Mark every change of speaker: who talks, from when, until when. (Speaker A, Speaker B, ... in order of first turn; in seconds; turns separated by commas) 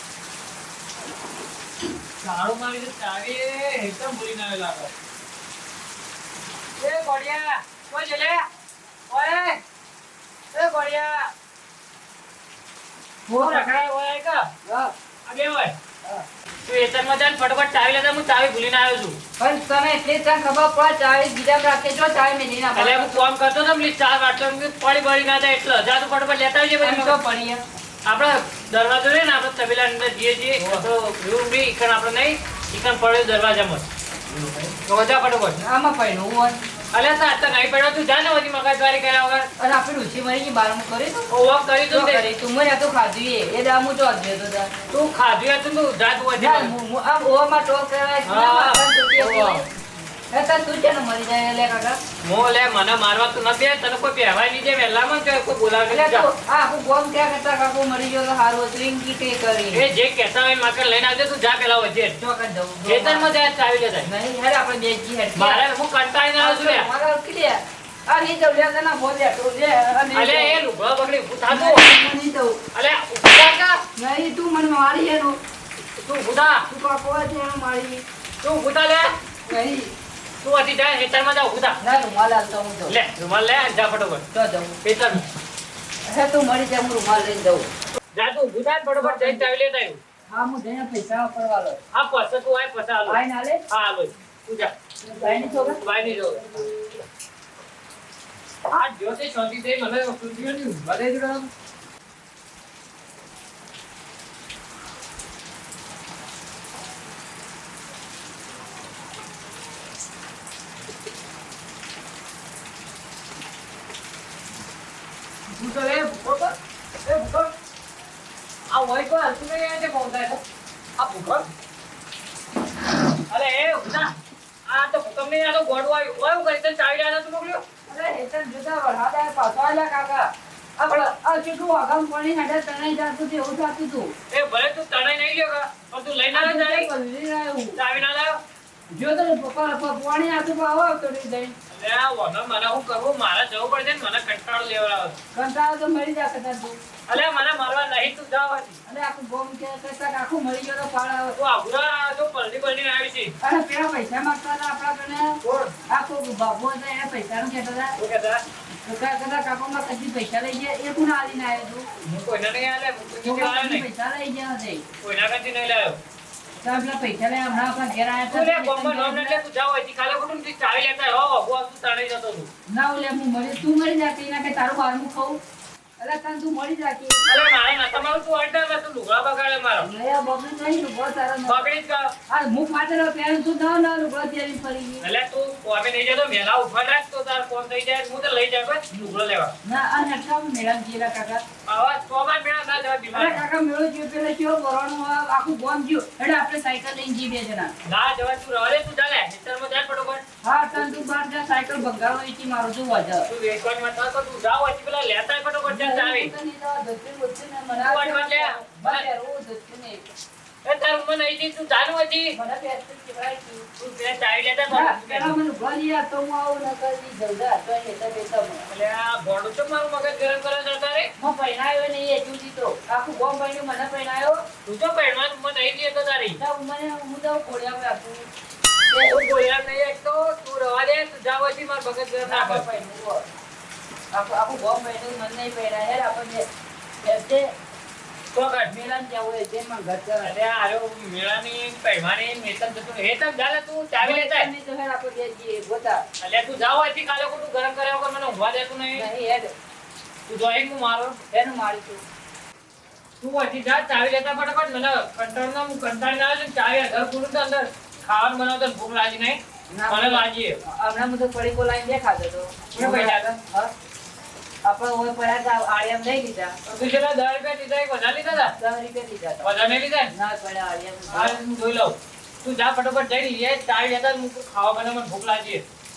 Speaker A: 2.2-4.9, Speaker A: 6.8-8.5, Speaker A: 9.1-9.6, Speaker A: 10.5-11.3, Speaker B: 13.3-13.8, Speaker A: 13.3-14.5, Speaker B: 14.7-14.9, Speaker A: 15.3-15.7, Speaker A: 16.7-19.2, Speaker B: 19.4-23.2, Speaker A: 22.8-27.2, Speaker B: 26.8-27.6, Speaker A: 28.1-33.9, Speaker B: 30.6-30.9, Speaker B: 34.4-34.7, Speaker A: 34.9-35.6, Speaker B: 35.6-36.6, Speaker A: 36.9-39.5, Speaker B: 39.6-41.3, Speaker A: 41.3-42.2, Speaker B: 41.9-44.7, Speaker A: 44.9-46.7, Speaker B: 46.4-49.6, Speaker A: 48.3-49.6, Speaker B: 50.3-52.0, Speaker A: 52.2-56.3, Speaker B: 55.9-59.8, Speaker A: 59.7-62.2, Speaker B: 62.2-63.3, Speaker A: 62.9-64.1, Speaker B: 64.1-65.6, Speaker A: 65.3-66.9, Speaker B: 66.4-70.6, Speaker A: 70.1-71.8, Speaker B: 71.5-72.6, Speaker A: 72.7-73.8, Speaker B: 74.0-75.4, Speaker A: 76.0-76.7, Speaker B: 76.7-78.0, Speaker A: 78.4-79.1, Speaker B: 79.5-79.9, Speaker A: 80.4-81.8, Speaker B: 81.8-83.0, Speaker A: 82.9-84.2, Speaker B: 84.3-84.8, Speaker A: 84.8-85.3, Speaker B: 86.1-87.7, Speaker A: 88.1-90.0, Speaker B: 89.0-89.4, Speaker B: 90.3-91.8, Speaker A: 91.9-93.2, Speaker B: 93.1-93.6, Speaker A: 93.7-94.7, Speaker B: 95.0-95.8, Speaker A: 95.2-96.7, Speaker A: 98.7-100.9, Speaker B: 100.9-101.5, Speaker A: 115.5-116.5, Speaker A: 117.1-117.5, Speaker A: 118.7-120.4, Speaker A: 121.0-121.5, Speaker A: 123.3-124.1, Speaker A: 124.7-127.6, Speaker B: 127.9-134.1, Speaker A: 134.3-136.9, Speaker B: 136.3-137.8, Speaker A: 137.8-138.4, Speaker B: 138.9-141.6, Speaker A: 141.7-145.2, Speaker B: 145.3-146.8, Speaker A: 147.1-148.8, Speaker B: 148.9-151.4, Speaker A: 151.3-153.3, Speaker B: 153.4-158.0, Speaker A: 155.4-155.7, Speaker A: 158.0-158.4, Speaker B: 158.9-161.9, Speaker A: 162.1-163.8, Speaker B: 163.2-164.8, Speaker A: 165.0-166.0, Speaker B: 166.6-169.4, Speaker A: 168.3-172.5, Speaker B: 172.7-175.4, Speaker B: 176.0-177.2, Speaker A: 177.3-179.9, Speaker B: 179.8-181.7, Speaker A: 181.5-182.1, Speaker B: 182.3-185.1, Speaker A: 185.0-189.5, Speaker B: 189.6-191.4, Speaker A: 191.7-193.4, Speaker B: 193.1-197.7, Speaker A: 197.8-200.2, Speaker B: 200.4-203.3, Speaker A: 203.3-206.3, Speaker B: 205.7-210.1, Speaker A: 207.7-209.1, Speaker A: 210.7-212.3, Speaker B: 212.3-213.7, Speaker A: 213.8-215.3, Speaker B: 214.7-218.7, Speaker A: 218.7-221.1, Speaker B: 221.2-224.4, Speaker A: 224.7-226.4, Speaker B: 226.4-228.3, Speaker B: 228.9-229.2, Speaker A: 229.1-232.7, Speaker B: 232.2-233.2, Speaker B: 234.1-236.5, Speaker B: 237.0-237.5, Speaker A: 238.3-238.7, Speaker B: 238.7-240.3, Speaker A: 240.2-244.5, Speaker B: 244.0-246.0, Speaker A: 246.2-249.1, Speaker B: 248.9-249.5, Speaker A: 250.3-251.2, Speaker B: 251.3-252.0, Speaker A: 253.2-260.6, Speaker B: 259.7-263.7, Speaker A: 262.8-263.4, Speaker B: 264.6-266.6, Speaker A: 266.7-268.6, Speaker B: 268.3-269.5, Speaker A: 269.4-270.1, Speaker B: 270.1-271.4, Speaker A: 271.1-275.6